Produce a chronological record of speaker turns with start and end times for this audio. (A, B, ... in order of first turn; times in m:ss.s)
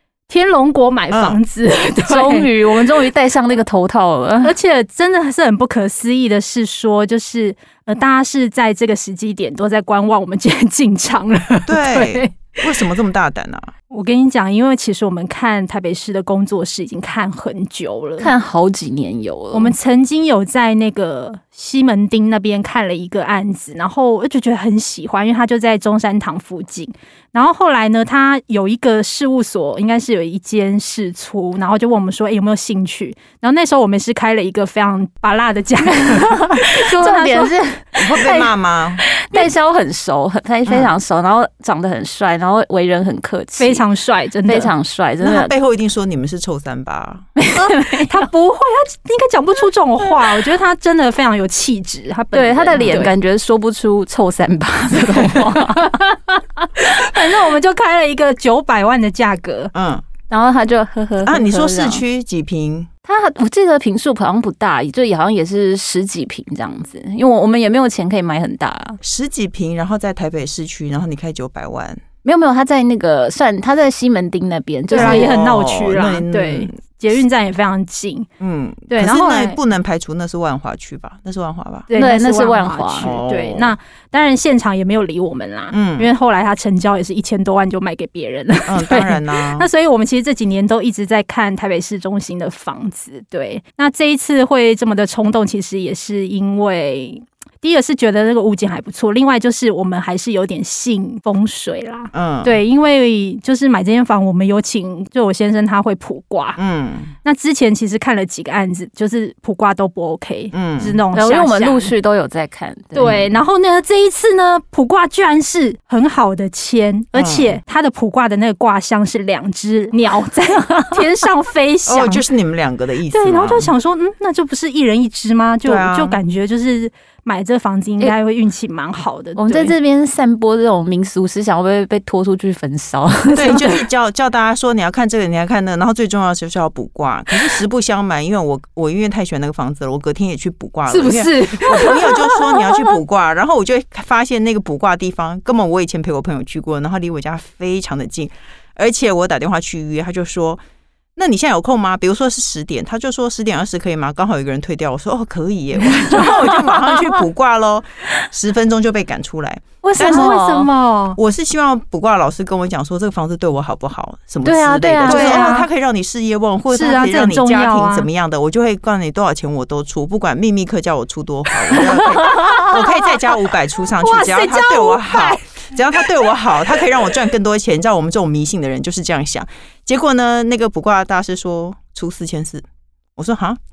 0:00.3-0:02.5 A
0:01.1-0:01.4 B
0:02.0-0:04.6 C
0:04.4-0:12.6 A
0:11.7-0:13.7 B
0:13.9-0:18.3 A
0:18.2-0:19.8 C
0:19.5-0:37.5 A
0:36.4-0:38.4 C
0:38.0-0:39.0 B
0:38.2-0:38.4 A
0:39.0-0:43.8 C
0:40.6-0:40.9 B
0:43.6-0:44.7 A
0:44.4-0:45.5 C
0:45.2-0:47.3 B
0:47.4-0:48.2 C
0:47.5-0:53.1 A
0:52.3-0:56.0 C
0:52.7-0:53.0 B
0:56.0-0:59.7 A
0:59.7-1:00.0 B
1:00.3-1:02.0 C
1:01.2-1:02.9 B
1:03.0-1:09.0 C
1:09.0-1:12.0 B
1:12.2-1:15.4 C
1:14.9-1:18.3 A
1:14.9-1:16.8 B
1:18.4-1:21.9 B
1:18.9-1:19.6 A
1:21.9-1:46.6 A
1:21.9-1:23.2 C
1:23.0-1:23.8 B
1:25.7-1:26.1 B
1:28.7-1:29.7 B
1:42.1-1:42.6 B
1:46.6-1:47.1 B
1:47.2-1:51.9 A
1:50.5-1:51.0 B
1:51.1-1:53.2 C
1:52.9-2:02.3 A
1:53.0-1:53.4 B
1:57.1-1:57.6 B
2:01.9-2:03.7 B
2:03.1-2:09.8 A
2:05.6-2:06.2 B
2:09.4-2:13.8 C
2:13.3-2:30.6 B
2:20.9-2:22.7 A
2:31.2-2:40.4 B
2:36.0-2:36.8 C
2:39.8-2:40.7 C
2:40.0-2:41.2 A
2:41.2-3:02.6 B
2:44.4-2:45.6 C
2:45.0-2:45.7 A
2:46.7-2:48.1 A
2:52.3-2:53.1 A
2:54.0-2:55.4 A
3:03.2-3:03.6 B